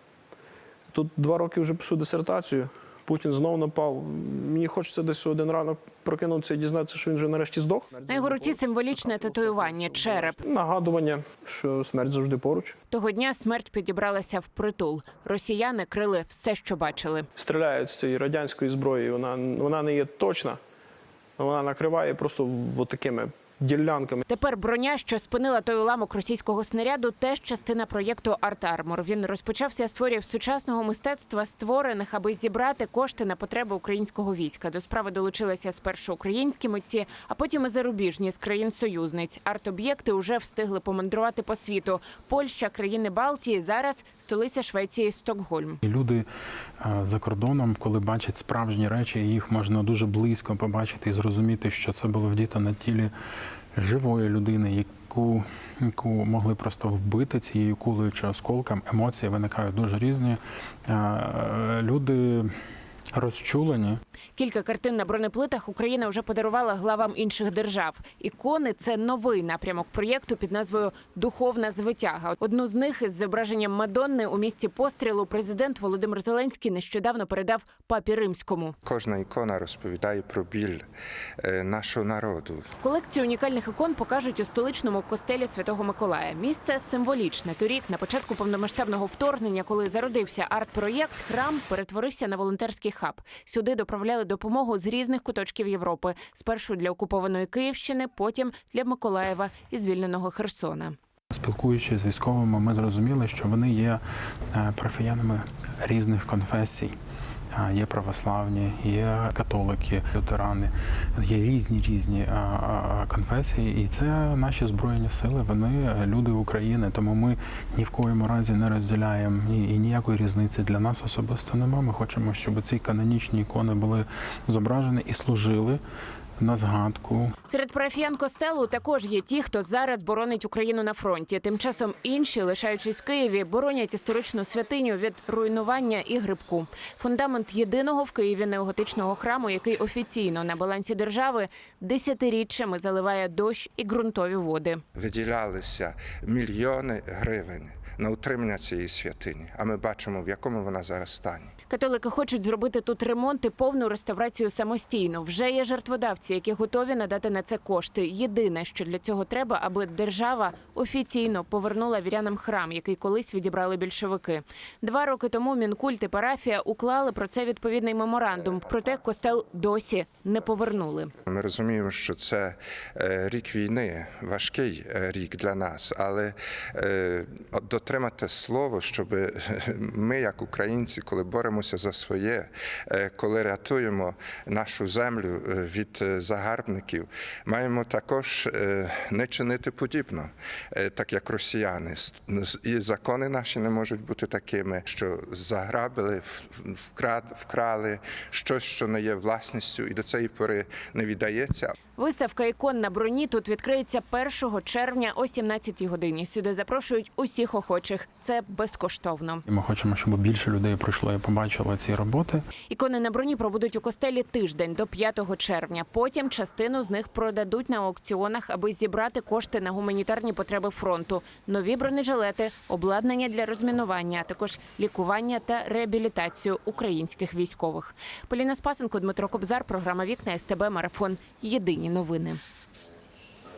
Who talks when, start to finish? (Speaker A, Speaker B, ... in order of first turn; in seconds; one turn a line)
Speaker A: 0.9-12.8
Speaker B: 8.1-10.4
Speaker B: 12.9-17.3
Speaker A: 17.4-20.6
Speaker A: 21.4-24.2
Speaker B: 24.3-45.8
Speaker C: 45.9-46.3
Speaker C: 46.8-53.1
Speaker C: 53.8-62.5
Speaker C: 63.1-64.0
Speaker B: 64.4-78.8
Speaker D: 78.8-80.9
Speaker D: 81.4-82.7
Speaker B: 82.8-101.0
Speaker C: 101.3-104.0
Speaker C: 104.5-107.0
Speaker C: 107.5-125.8
Speaker C: 126.4-127.3
Speaker B: 127.5-144.8
Speaker D: 145.0-151.5
Speaker B: 151.7-171.1
Speaker D: 171.3-201.7
Speaker B: 202.0-209.4
Speaker C: 209.5-212.4
Speaker B: 212.7-232.4